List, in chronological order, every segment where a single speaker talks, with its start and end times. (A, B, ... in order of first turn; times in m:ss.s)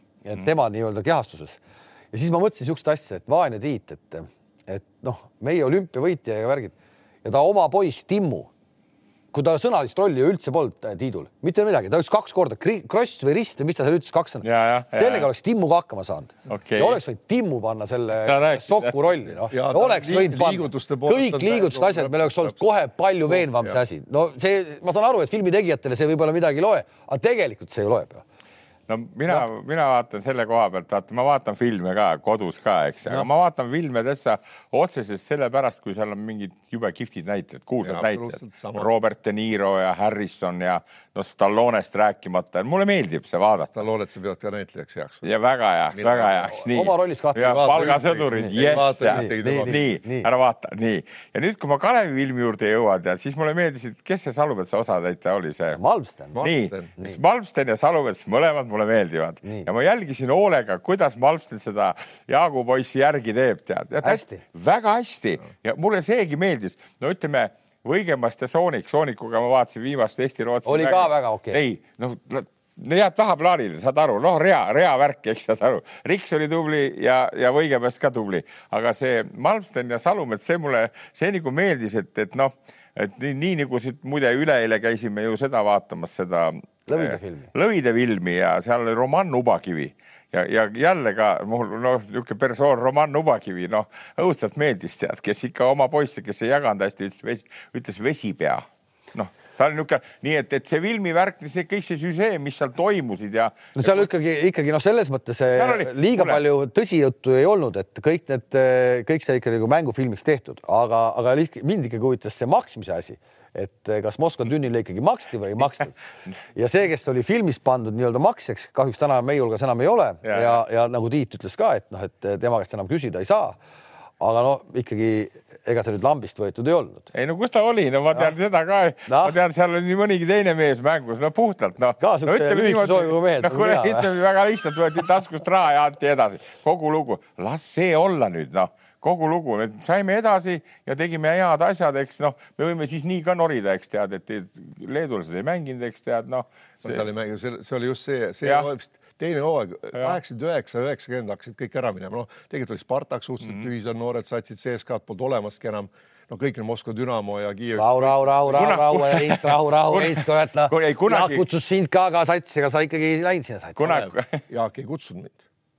0:00.2-0:01.6 A
0:02.1-0:08.5 A
0:09.3-0:28.2 A
0:14.4-0:15.3 B
0:16.5-0:17.0 B
0:18.2-0:19.0 B
0:19.5-0:22.7 C
0:23.3-0:23.8 C
0:28.9-0:43.7 B
0:37.8-0:38.9 C
0:43.8-0:45.3 C
0:45.2-0:55.8 B
0:45.9-0:46.5 C
0:46.5-0:47.8 A
0:47.4-0:49.8 C
0:48.4-0:50.3 A
0:55.8-0:56.4 A
0:56.3-0:56.9 C
0:56.4-1:44.1 B
1:04.0-1:04.4 A
1:10.6-1:11.6 A
1:26.9-1:27.5 A
1:43.8-1:56.0 A
1:45.5-1:46.4 B
1:56.5-2:03.6 A
2:00.2-2:00.6 B
2:04.2-2:07.1 A
2:07.1-2:27.0 B
2:09.1-2:09.4 A
2:12.0-2:14.1 A
2:26.8-2:38.8 C
2:28.4-2:28.7 B
2:33.4-2:33.7 B
2:37.8-2:44.0 A
2:38.5-2:41.5 B
2:43.8-2:44.4 B
2:43.9-2:45.4 C